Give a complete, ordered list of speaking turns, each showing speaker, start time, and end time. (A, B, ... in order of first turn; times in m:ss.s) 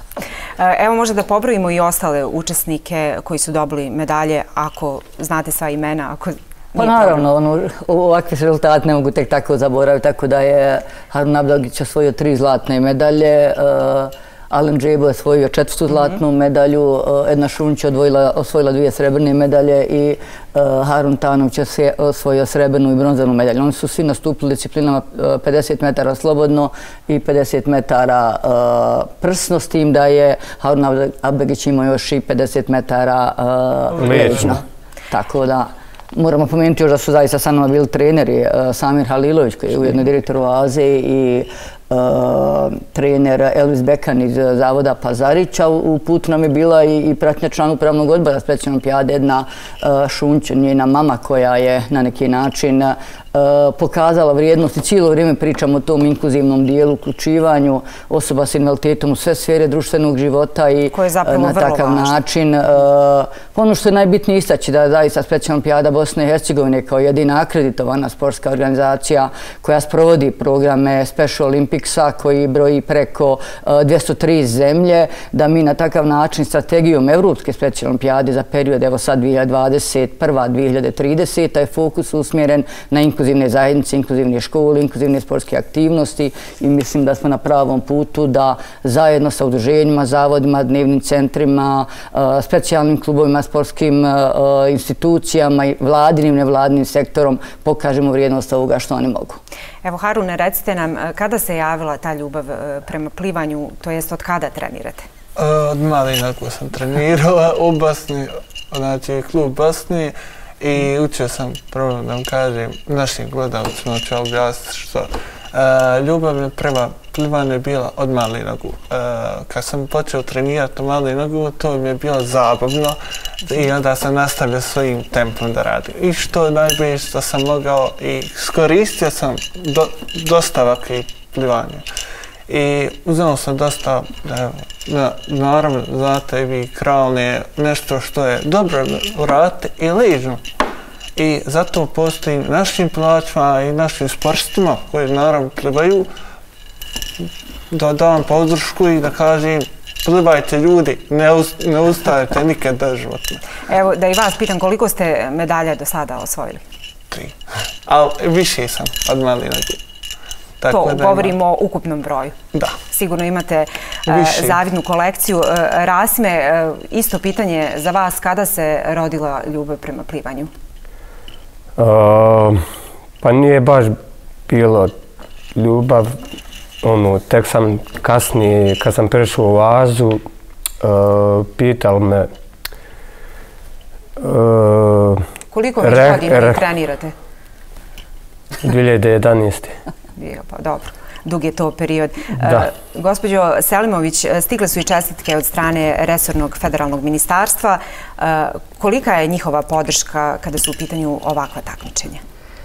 0:00.6-0:07.2 A
0:06.8-1:39.4 B
0:34.0-0:34.5 C
0:34.0-0:34.5 D
1:00.9-1:02.1 A
1:39.8-1:45.0 A
1:45.4-2:11.8 C
2:12.5-2:20.4 C
2:21.2-2:26.1 C
2:27.7-2:33.5 C
2:33.6-2:36.6 A
2:37.1-2:39.8 C
2:40.6-2:41.4 C
2:40.7-2:42.4 A
2:42.9-2:50.5 A
2:44.0-2:44.6 C
2:51.8-2:52.6 D
2:53.2-2:53.9 D
2:54.5-2:54.9 D
2:55.5-2:56.1 D
2:56.8-3:00.2 D
3:00.8-3:02.3 D
3:04.2-3:05.2 D
3:05.5-3:07.1 A
3:05.8-3:06.6 D
3:08.6-3:09.7 D
3:10.2-3:22.2 A